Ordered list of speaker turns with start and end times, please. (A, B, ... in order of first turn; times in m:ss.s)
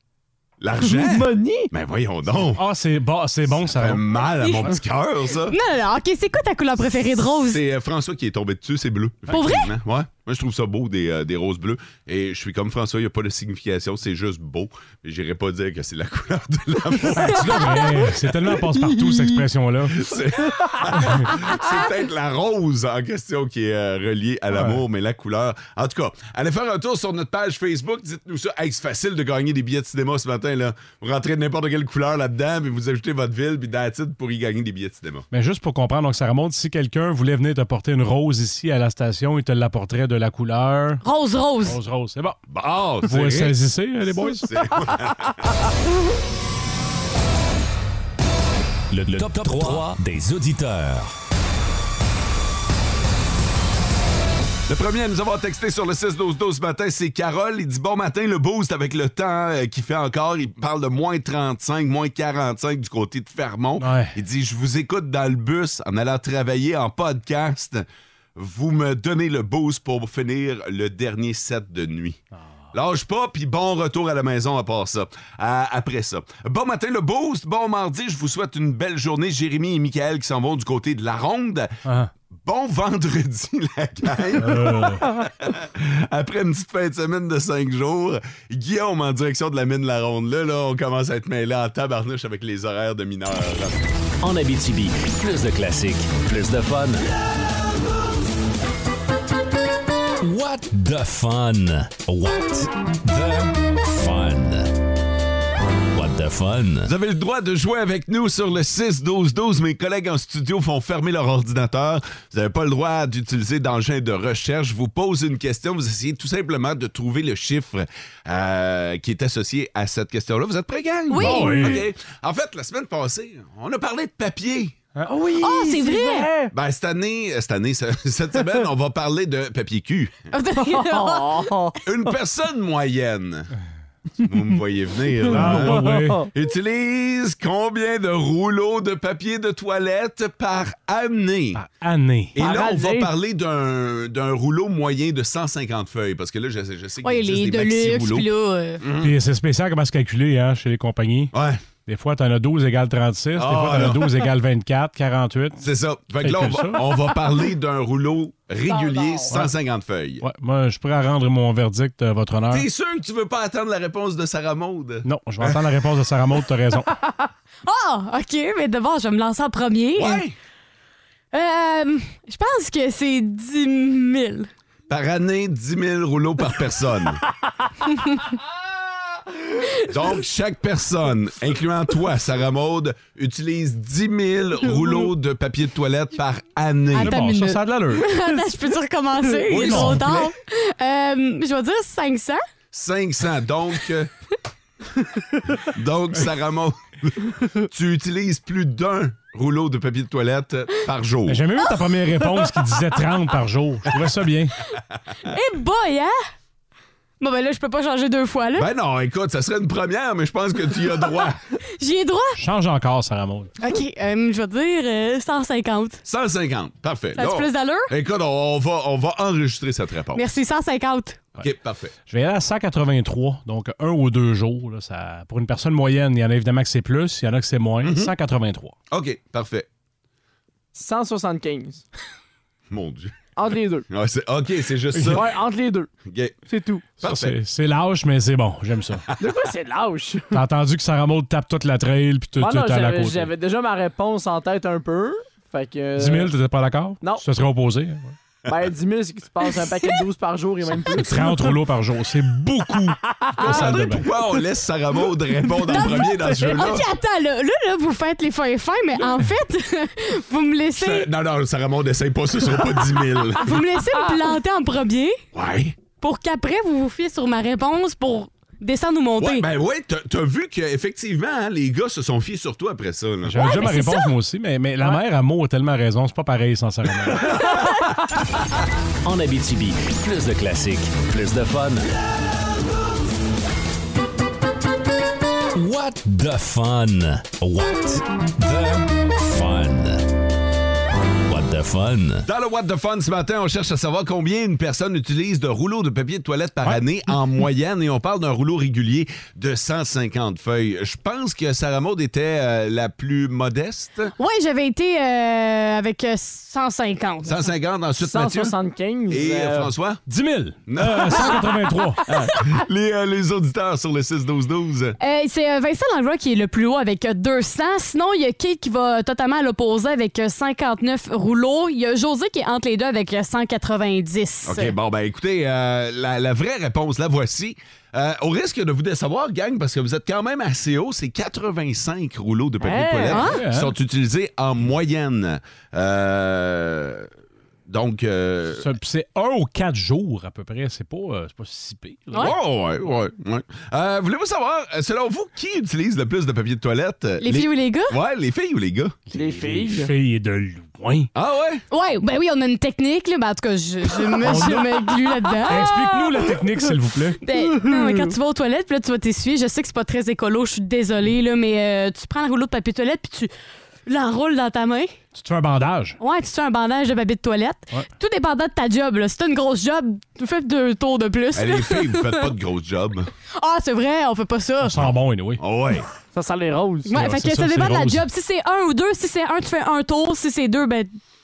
0:00.6-0:02.6 A
0:00.8-0:01.7 B
0:02.5-0:04.0 C
0:03.6-0:05.6 A
0:04.4-0:04.7 D
0:05.5-0:07.6 D
0:07.3-0:18.1 A
0:09.3-0:09.7 D
0:17.2-0:20.1 C
0:19.0-0:19.4 B
0:20.0-0:35.2 A
0:21.0-0:21.3 C
0:24.5-0:24.8 C
0:35.3-0:41.0 C
0:41.0-0:41.8 D
0:41.6-0:42.4 C
0:42.5-0:45.5 A
0:43.0-0:44.5 C
0:48.9-0:51.1 E
0:54.7-1:12.2 A
1:03.8-1:04.2 C
1:12.7-1:21.8 A
1:21.8-1:22.1 C
1:22.4-1:33.8 A
1:24.4-1:25.0 C
1:34.2-1:37.1 E
1:40.2-1:44.7 E
1:45.9-1:46.9 E
1:46.8-2:04.8 A
2:01.1-2:01.8 D
2:01.2-2:01.8 C
2:05.0-2:06.5 B
2:05.4-2:06.3 D
2:06.5-2:10.2 A
2:10.3-2:11.5 D
2:10.6-2:11.8 B
2:11.8-2:13.5 A
2:14.2-2:21.6 A
2:15.3-2:16.3 C
2:15.5-2:16.3 B
2:21.6-2:22.4 C
2:22.4-2:28.3 A
2:22.4-2:23.1 B
2:27.0-2:28.8 D
2:28.8-2:29.2 A
2:29.0-2:31.3 C
2:31.3-2:31.6 A
2:31.9-2:35.6 C
2:33.4-2:34.3 A
2:35.6-2:40.2 A
2:36.2-2:37.1 C
2:39.3-2:39.5 C
2:40.2-2:42.7 C
2:42.5-2:45.6 A
2:45.0-2:46.9 C
2:47.6-2:50.2 D
2:50.0-2:50.3 A
2:51.3-2:54.5 D
2:54.9-2:57.2 A
2:59.8-3:07.2 A
3:04.7-3:05.1 B
3:06.9-3:12.4 D
3:07.0-3:08.2 C
3:09.5-3:10.3 C
3:12.7-3:14.1 A
3:15.7-3:21.4 A
3:21.2-3:24.6 C
3:25.2-3:26.2 D
3:27.2-3:28.7 D
3:28.6-3:31.4 A
3:31.8-3:32.4 D
3:32.4-3:33.5 C
3:33.6-3:36.0 D
3:36.0-3:40.2 A
3:37.2-3:37.9 D
3:40.1-3:41.2 D
3:41.4-3:41.9 A
3:42.1-3:48.7 C
3:47.8-3:48.1 A
3:48.9-3:49.7 A
3:50.7-3:51.8 B
3:52.7-3:53.1 A
3:53.4-3:53.9 B
3:53.9-3:55.3 A
3:54.9-3:55.2 C
3:55.1-3:55.9 B
3:56.1-3:56.4 A
3:56.5-3:56.9 B
3:57.0-3:57.4 A
3:57.0-3:59.1 C
3:59.2-4:00.4 B
4:00.3-4:03.3 C
4:02.4-4:06.3 B
4:06.0-4:08.1 C
4:08.5-4:11.6 B
4:10.9-4:14.0 C
4:13.4-4:13.6 B
4:13.4-4:16.8 A
4:15.7-4:21.1 D
4:20.8-4:23.6 A
4:23.4-4:25.2 D
4:25.3-4:25.8 A
4:26.0-4:29.5 D
4:29.2-4:33.5 A
4:33.2-4:37.5 C
4:33.4-4:34.1 D
4:39.0-4:41.9 E
4:45.5-4:50.0 E
4:51.3-4:52.2 E
4:52.2-5:04.1 A
5:04.2-5:07.4 D
5:07.2-5:08.6 A
5:08.0-5:09.7 B
5:09.1-5:10.0 A
5:10.1-5:12.4 C
5:10.7-5:11.5 A
5:12.3-5:15.0 A
5:15.0-5:24.7 D
5:24.4-5:37.1 A
5:32.6-5:33.2 B
5:33.1-5:33.4 D
5:33.3-5:33.7 C
5:37.7-5:38.6 A
5:38.5-5:42.3 C
5:42.2-5:49.0 A
5:47.2-5:47.9 D
5:49.1-5:49.9 B
5:49.1-5:51.1 C
5:51.1-5:51.6 A
5:51.7-5:55.8 D
5:54.2-5:54.7 C
5:55.5-5:57.2 C
5:57.2-6:03.3 D
5:57.7-5:58.1 B
6:03.9-6:05.0 D
6:05.1-6:06.0 C
6:06.0-6:12.3 D
6:11.4-6:13.1 A
6:13.4-6:14.8 D
6:14.6-6:15.4 C
6:14.8-6:15.9 A
6:16.1-6:16.9 B
6:16.9-6:20.9 D
6:16.9-6:18.0 C